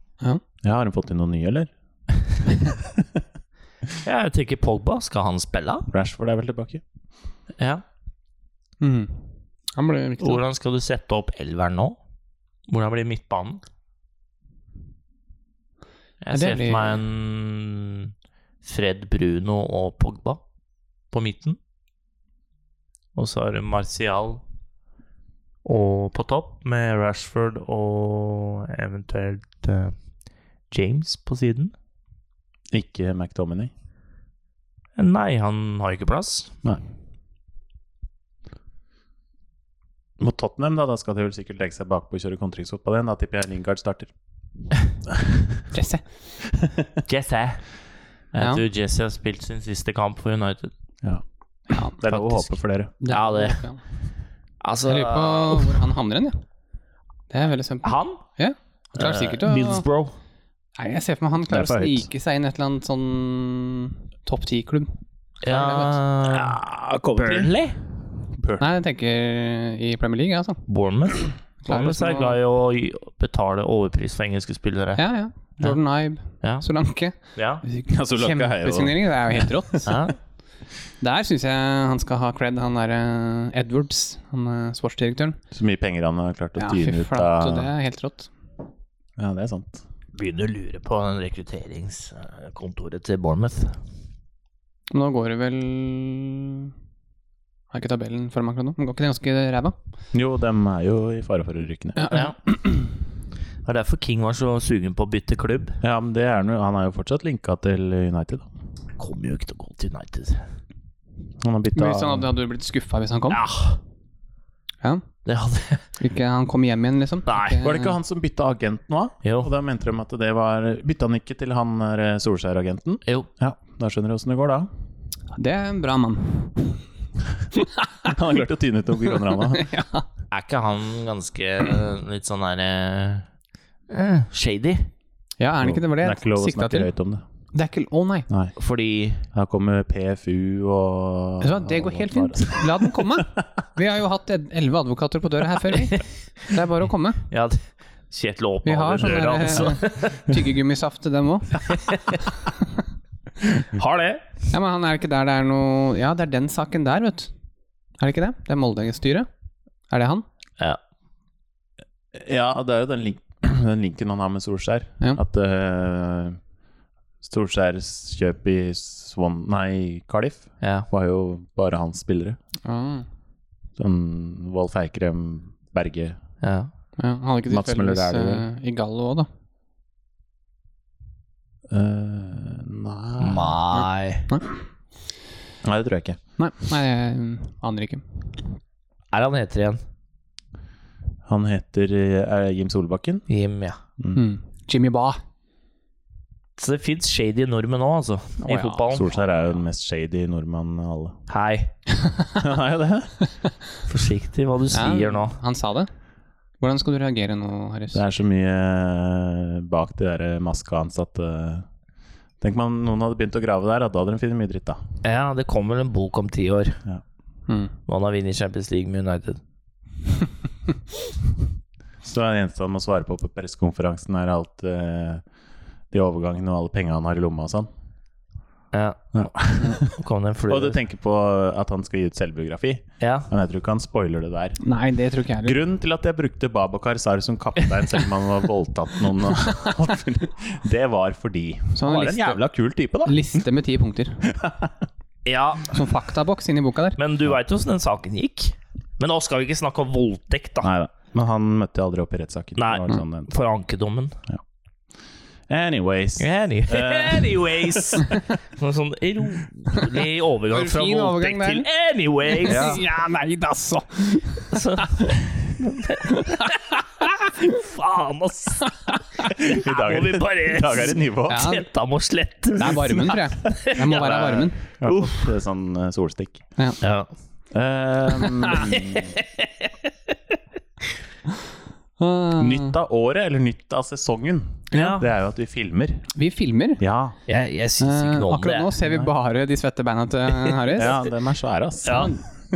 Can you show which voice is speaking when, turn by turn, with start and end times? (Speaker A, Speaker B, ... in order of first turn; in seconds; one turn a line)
Speaker A: 0.6-3.1
Speaker B: 4.0-5.9
Speaker A: 5.9-6.8
Speaker B: 7.6-7.8
Speaker C: 8.8-10.4
Speaker B: 10.2-12.0
Speaker B: 12.7-13.6
Speaker B: 16.2-20.4
Speaker C: 16.3-17.0
Speaker B: 21.1-21.6
Speaker B: 23.2-24.4
Speaker B: 25.6-29.9
Speaker B: 30.7-31.7
Speaker A: 32.7-33.7
Speaker B: 35.0-36.5
Speaker A: 40.2-44.1
Speaker A: 45.1-45.6
Speaker C: 45.7-46.0
Speaker A: 46.5-47.0
Speaker B: 47.1-47.7
Speaker B: 48.3-50.7
Speaker C: 48.4-48.6
Speaker A: 51.0-52.9
Speaker C: 51.7-52.0
Speaker B: 52.0-52.5
Speaker C: 53.0-53.8
Speaker B: 53.1-53.7
Speaker B: 54.6-55.8
Speaker C: 54.9-56.4
Speaker C: 57.3-59.9
Speaker B: 57.8-58.2
Speaker B: 59.0-60.1
Speaker C: 60.8-64.9
Speaker A: 61.5-62.1
Speaker B: 65.4-66.6
Speaker C: 65.4-66.0
Speaker A: 66.3-67.6
Speaker B: 67.2-67.8
Speaker A: 68.3-68.7
Speaker C: 68.6-70.6
Speaker B: 70.7-75.0
Speaker C: 71.7-72.4
Speaker C: 75.0-79.9
Speaker B: 76.4-76.7
Speaker B: 77.3-77.6
Speaker A: 77.9-79.9
Speaker B: 79.9-80.2
Speaker C: 81.0-85.4
Speaker A: 85.5-87.7
Speaker C: 86.6-88.3
Speaker A: 89.2-89.8
Speaker B: 90.2-93.8
Speaker C: 94.9-96.7
Speaker C: 97.7-99.8
Speaker A: 100.1-102.1
Speaker C: 102.0-102.7
Speaker B: 102.1-102.3
Speaker B: 103.6-105.8
Speaker A: 105.8-108.5
Speaker B: 109.0-110.4
Speaker A: 111.4-112.3
Speaker C: 111.8-113.4
Speaker B: 113.3-113.8
Speaker B: 115.3-115.9
Speaker C: 116.0-118.0
Speaker B: 117.3-117.6
Speaker A: 117.6-124.7
Speaker B: 119.2-119.5
Speaker C: 125.3-126.8
Speaker C: 127.5-128.2
Speaker A: 128.1-129.7
Speaker C: 129.3-130.1
Speaker B: 130.3-133.3
Speaker B: 133.9-134.9
Speaker C: 135.4-136.9
Speaker A: 135.6-137.2
Speaker C: 137.5-138.3
Speaker B: 138.6-139.2
Speaker A: 139.3-143.2
Speaker C: 141.4-147.2
Speaker B: 147.3-150.3
Speaker C: 148.7-152.1
Speaker B: 151.7-152.2
Speaker B: 153.6-154.3
Speaker C: 154.5-157.3
Speaker C: 158.0-159.3
Speaker C: 159.9-160.3
Speaker A: 162.1-166.4
Speaker A: 167.2-172.4
Speaker B: 170.6-170.9
Speaker C: 172.7-173.1
Speaker A: 173.8-176.2
Speaker B: 176.4-176.7
Speaker C: 177.0-179.3
Speaker A: 177.5-178.4
Speaker A: 181.7-183.6
Speaker B: 183.2-184.3
Speaker C: 183.7-184.5
Speaker A: 185.6-186.2
Speaker C: 186.4-188.2
Speaker B: 189.1-189.8
Speaker A: 191.3-193.3
Speaker B: 193.3-193.8
Speaker C: 194.1-195.2
Speaker B: 196.6-199.1
Speaker C: 198.4-198.9
Speaker A: 198.9-201.2
Speaker B: 201.3-201.7
Speaker C: 202.0-202.4
Speaker A: 202.4-203.2
Speaker B: 203.9-205.4
Speaker C: 204.7-205.9
Speaker C: 206.6-208.0
Speaker A: 207.9-211.7
Speaker A: 212.4-214.8
Speaker B: 215.0-216.8
Speaker C: 217.5-217.7
Speaker B: 217.9-219.4
Speaker A: 222.0-225.2
Speaker A: 225.9-227.7
Speaker B: 228.7-230.8
Speaker A: 229.1-229.9
Speaker A: 230.5-234.6
Speaker B: 233.0-233.3
Speaker C: 234.6-235.6
Speaker A: 235.4-243.2
Speaker C: 241.8-242.4
Speaker C: 243.0-244.3
Speaker A: 244.3-244.7
Speaker B: 245.2-245.8
Speaker C: 245.7-247.0
Speaker B: 247.0-250.7
Speaker A: 250.6-253.3
Speaker B: 252.6-254.2
Speaker A: 255.5-258.1
Speaker B: 256.2-262.8
Speaker C: 260.5-261.7
Speaker C: 262.3-265.1
Speaker A: 262.4-262.8
Speaker B: 264.5-275.3
Speaker C: 266.0-267.1
Speaker C: 268.6-269.3
Speaker A: 269.4-271.5
Speaker C: 271.3-271.7
Speaker C: 272.6-274.6
Speaker A: 273.9-276.4
Speaker B: 276.8-277.1
Speaker A: 277.5-279.1
Speaker C: 278.2-278.8
Speaker B: 278.8-279.7
Speaker C: 282.0-282.8
Speaker A: 282.4-286.1
Speaker B: 284.7-285.1
Speaker C: 286.1-286.8
Speaker A: 286.8-287.2
Speaker B: 287.3-288.7
Speaker C: 287.8-291.1
Speaker A: 290.8-292.1
Speaker B: 291.9-292.1
Speaker C: 291.9-292.2